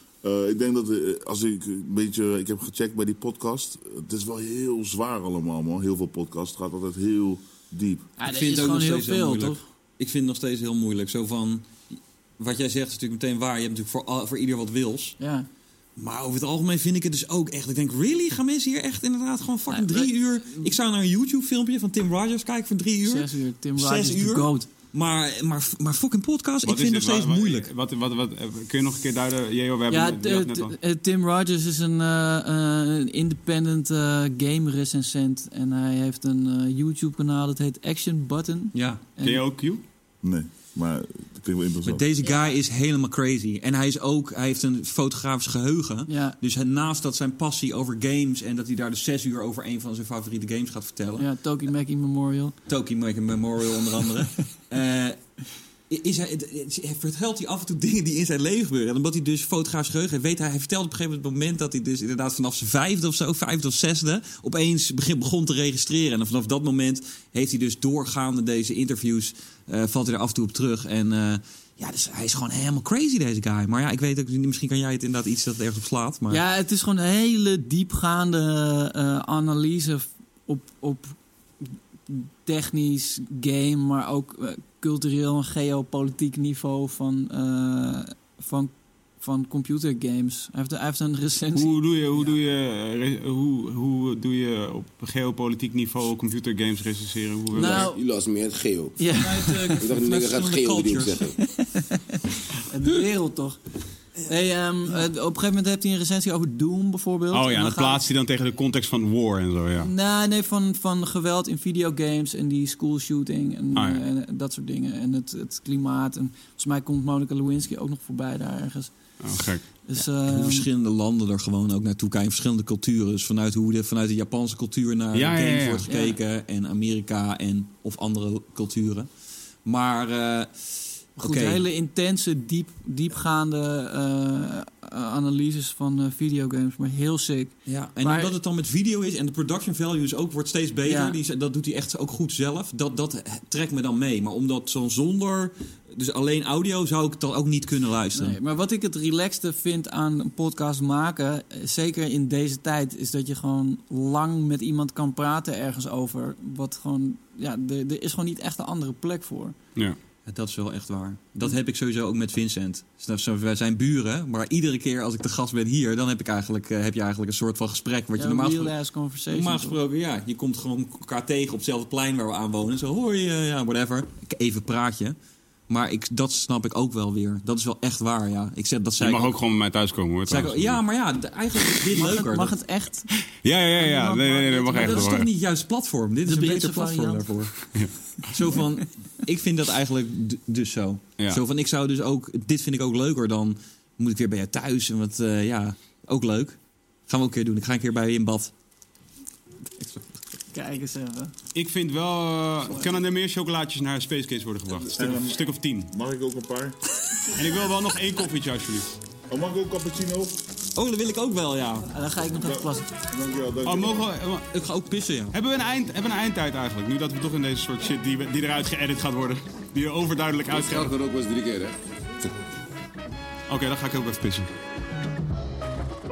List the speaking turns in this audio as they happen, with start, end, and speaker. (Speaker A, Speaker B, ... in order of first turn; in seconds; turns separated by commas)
Speaker A: 0.2-8.1, Speaker B: 8.2-9.6, Speaker C: 8.3-15.2, Speaker B: 15.2-15.4, Speaker C: 16.0-27.7, Speaker B: 19.7-20.7, Speaker B: 23.0-24.7, Speaker D: 26.6-30.7, Speaker B: 29.9-39.4, Speaker C: 38.7-39.0, Speaker D: 39.2-39.8, Speaker A: 40.2-42.0, Speaker C: 41.8-51.3, Speaker B: 46.1-46.4, Speaker B: 51.2-52.5, Speaker C: 52.7-76.4, Speaker B: 76.3-91.7, Speaker D: 91.5-97.9, Speaker B: 97.5-98.0, Speaker E: 97.5-101.4, Speaker B: 99.0-99.9, Speaker C: 99.7-101.2, Speaker B: 101.4-103.6, Speaker B: 104.2-108.0, Speaker D: 107.3-109.9, Speaker B: 109.8-118.9, Speaker D: 113.7-114.0, Speaker D: 119.2-119.6, Speaker B: 119.9-120.7, Speaker C: 120.2-129.1, Speaker D: 125.1-125.8, Speaker B: 125.9-126.2, Speaker C: 129.6-131.6, Speaker B: 131.2-138.3, Speaker C: 137.7-148.4, Speaker B: 140.8-141.2, Speaker B: 148.1-159.6, Speaker C: 160.3-168.7, Speaker B: 168.2-169.8, Speaker C: 169.3-175.2, Speaker C: 175.7-179.3, Speaker D: 179.0-180.8, Speaker C: 180.2-182.5, Speaker B: 181.9-183.1, Speaker D: 183.3-185.3, Speaker B: 183.8-185.2, Speaker C: 184.7-187.7, Speaker B: 186.2-187.3, Speaker D: 187.7-187.9, Speaker C: 188.3-196.6, Speaker C: 197.1-198.5, Speaker C: 199.8-200.0, Speaker B: 200.5-201.3, Speaker D: 201.5-205.9, Speaker A: 204.9-206.8, Speaker D: 207.3-208.9, Speaker A: 209.3-210.4, Speaker C: 210.7-211.9, Speaker B: 211.9-212.9, Speaker A: 212.4-214.1, Speaker D: 213.6-214.5, Speaker C: 214.5-215.3, Speaker D: 215.3-220.9, Speaker E: 220.5-221.8, Speaker D: 223.5-224.5